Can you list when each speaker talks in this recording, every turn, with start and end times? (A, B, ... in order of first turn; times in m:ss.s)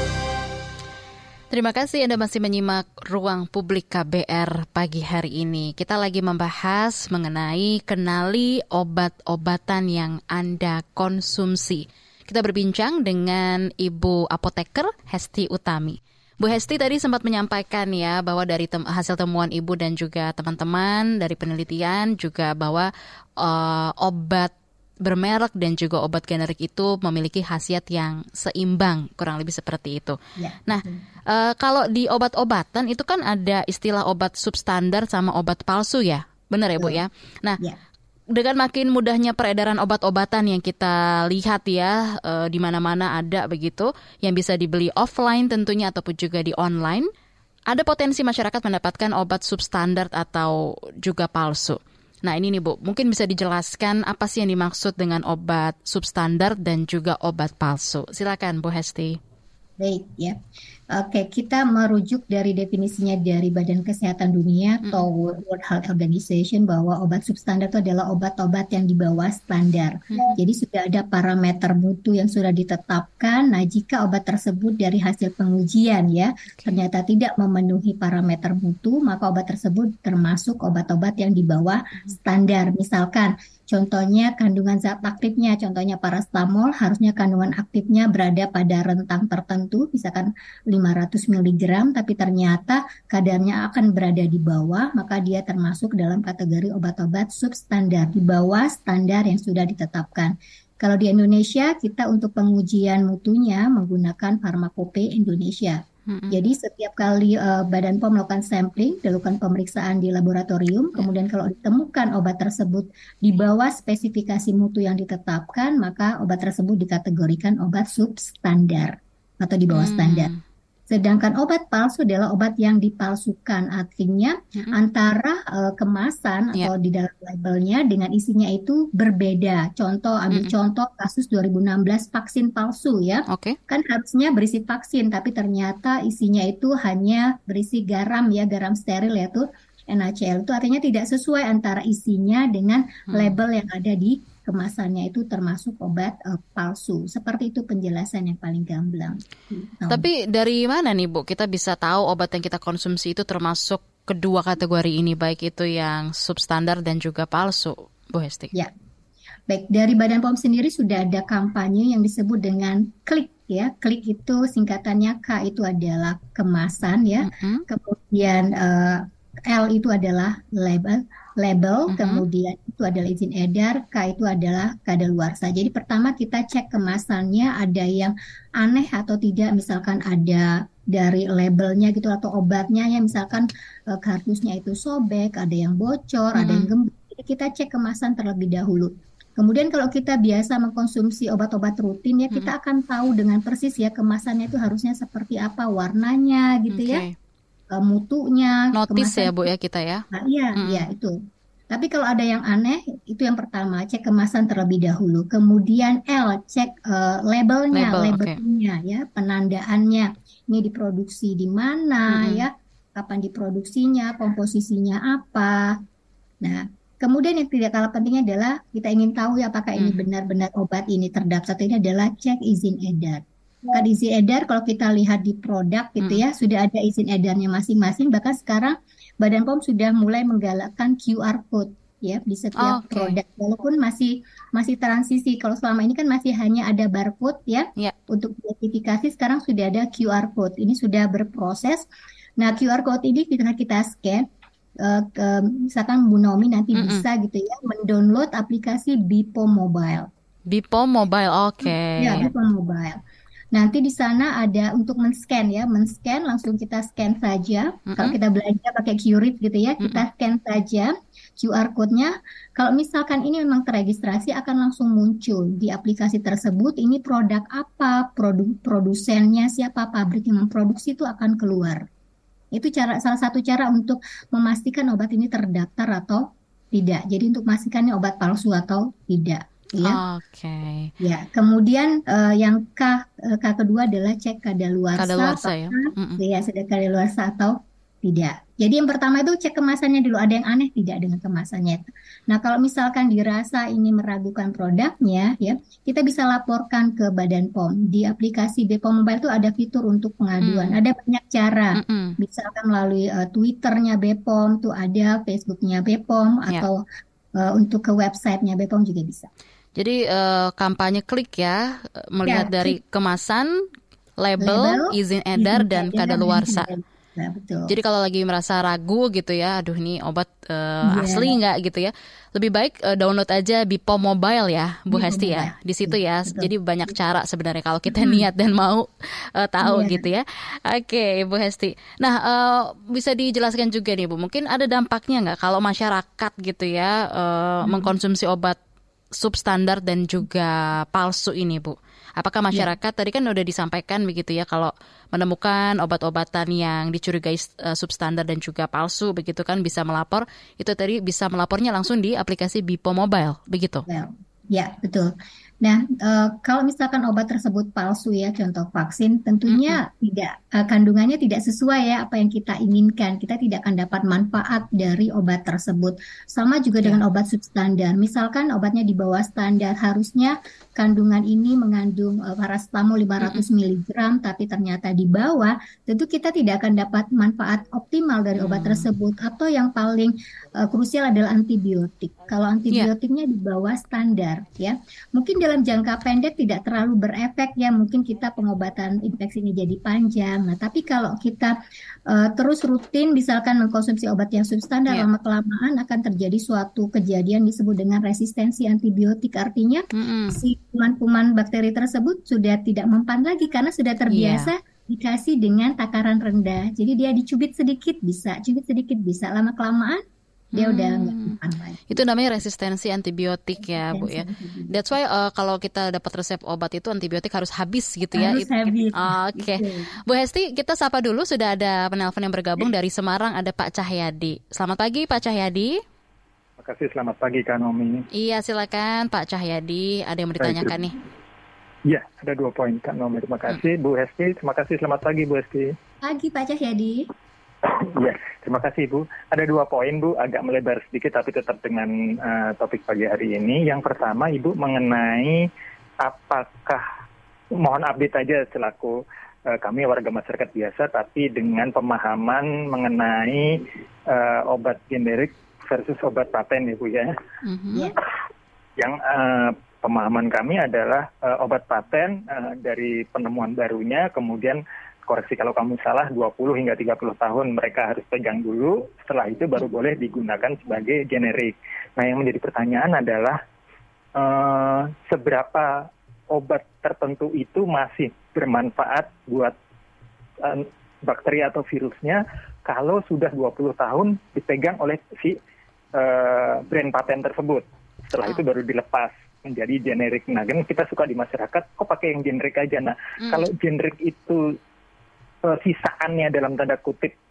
0:01.5-0:24.5 A
0:25.0-0:37.6 A
0:30.4-0:31.1 B
0:38.3-0:47.1 A
0:47.7-0:59.2 A
0:59.8-1:00.4 B
1:00.9-2:00.3 B
1:10.1-1:10.4 A
1:46.1-1:46.4 A
1:59.7-2:00.4 A
2:00.9-2:30.1 B
2:13.3-2:13.6 A
2:23.1-2:23.4 A
2:29.9-2:38.5 A
2:39.5-3:17.0 B
2:47.2-2:47.6 A
2:51.9-2:52.2 A
3:06.3-3:06.7 A
3:16.7-3:17.1 A
3:17.7-3:19.4 B
3:18.8-3:20.0 A
3:20.1-3:21.2 B
3:20.6-3:20.9 A
3:21.7-3:35.7 B
3:27.7-3:28.4 A
3:32.1-3:32.4 A
3:36.4-4:01.8 B
3:39.8-3:40.0 A
3:52.6-3:53.2 A
4:02.4-4:04.2 B
4:04.8-4:10.1 B
4:06.8-4:07.0 A
4:10.5-4:12.3 A
4:11.6-4:13.0 B
4:13.5-4:31.8 B
4:17.9-4:18.1 A
4:32.5-4:40.0 B
4:39.8-4:40.9 A
4:41.0-5:06.8 B
4:45.0-4:46.2 A
5:00.4-5:00.8 A
5:01.8-5:02.2 A
5:07.4-5:09.3 B
5:09.8-5:13.6 A
5:12.2-5:12.8 B
5:14.2-5:16.7 A
5:14.4-5:17.7 B
5:17.7-5:38.6 A
5:20.9-5:21.4 B
5:24.9-5:26.5 B
5:27.9-5:28.2 B
5:29.6-5:30.0 B
5:37.6-5:37.9 B
5:39.2-5:53.8 A
5:53.9-5:55.1 B
5:55.6-6:31.5 B
5:59.5-5:59.8 A
6:18.4-6:18.9 A
6:32.1-6:50.0 B
6:39.9-6:40.4 A
6:44.1-6:44.5 A
6:50.6-6:51.4 A
6:50.6-6:51.8 B
6:51.9-7:05.7 A
6:53.6-6:54.8 B
6:58.1-7:00.0 B
7:06.6-7:08.0 C
7:08.2-7:10.9 A
7:10.4-7:10.8 C
7:11.9-7:15.7 C
7:16.0-7:17.1 B
7:17.6-7:25.5 C
7:26.0-7:26.8 C
7:27.6-7:37.2 C
7:37.4-7:37.9 A
7:38.8-7:53.4 C
7:54.2-7:59.5 C
8:00.4-8:05.4 C
8:06.0-8:14.5 C
8:15.4-8:17.1 C